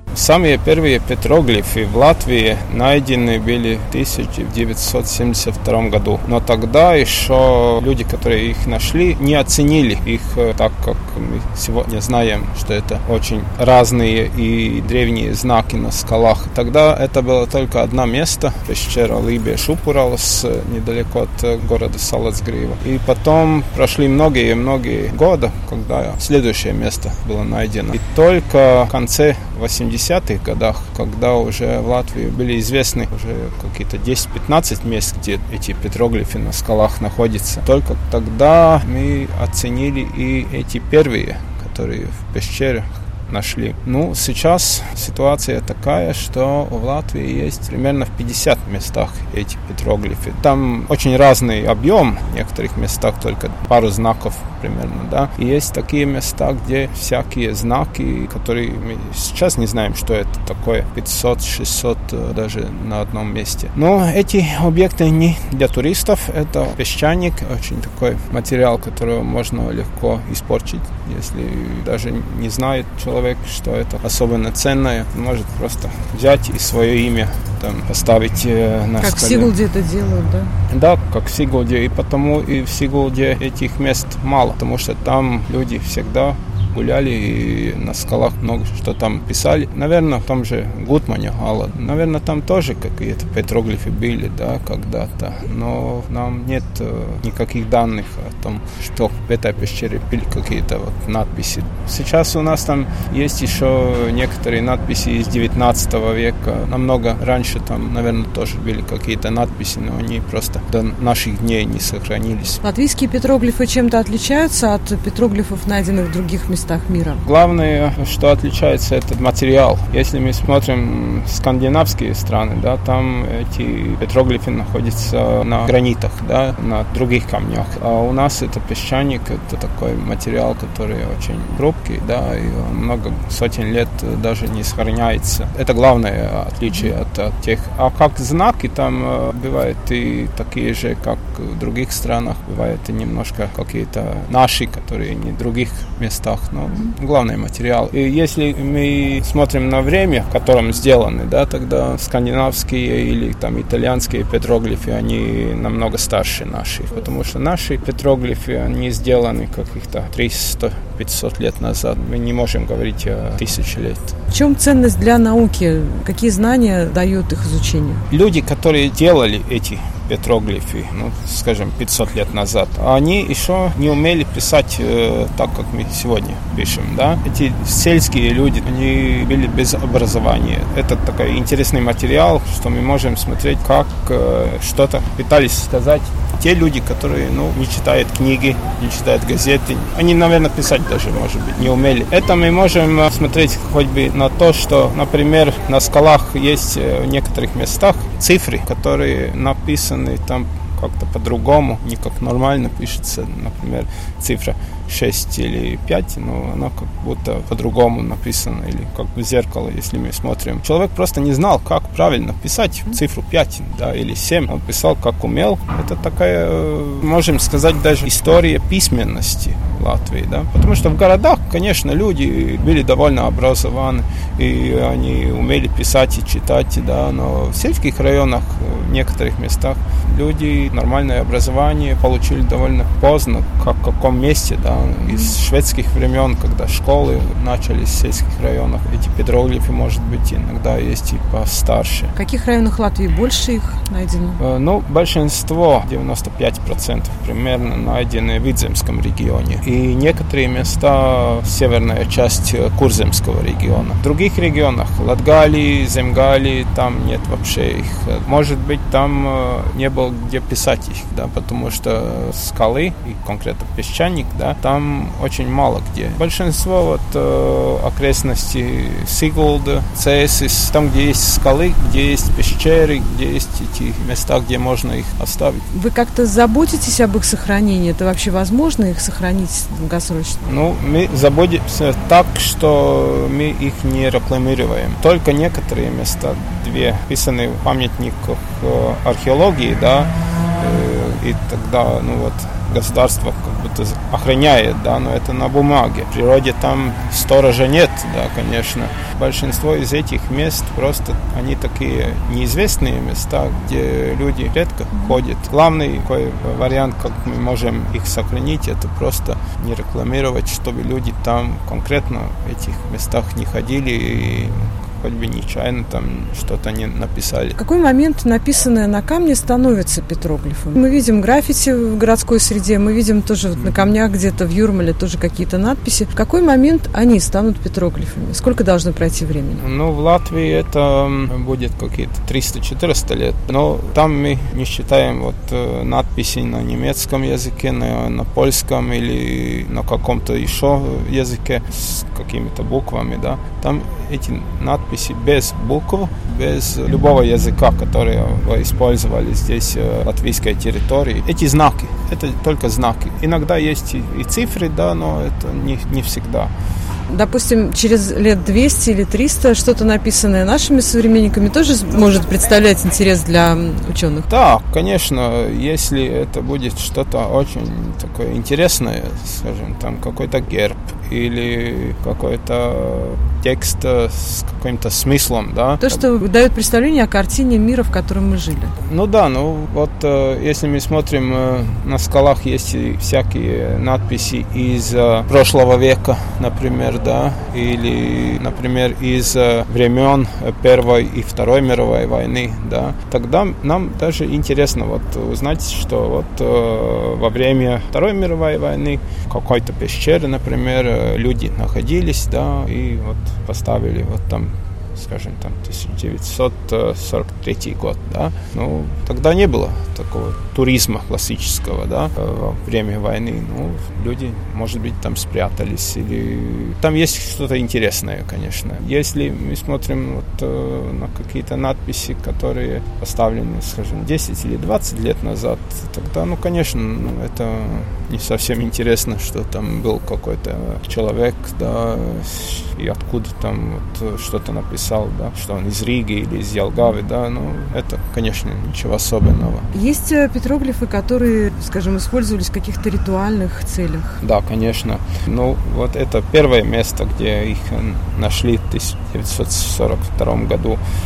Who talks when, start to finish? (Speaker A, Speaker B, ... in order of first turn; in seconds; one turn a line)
Speaker A: 0.1-79.5
Speaker B: 79.0-80.5
Speaker A: 80.7-112.6
Speaker B: 112.6-117.2
Speaker A: 117.2-164.2
Speaker B: 164.3-168.0
Speaker A: 168.1-242.1
Speaker B: 242.1-244.4
Speaker A: 244.4-275.6
Speaker B: 275.7-280.4
Speaker A: 280.4-317.6
Speaker B: 317.6-329.6
Speaker A: 323.6-323.8
Speaker A: 329.6-356.5
Speaker B: 357.1-364.3
Speaker A: 364.3-376.0
Speaker B: 375.8-378.8
Speaker A: 378.8-439.7
Speaker B: 439.7-444.2
Speaker A: 444.2-450.8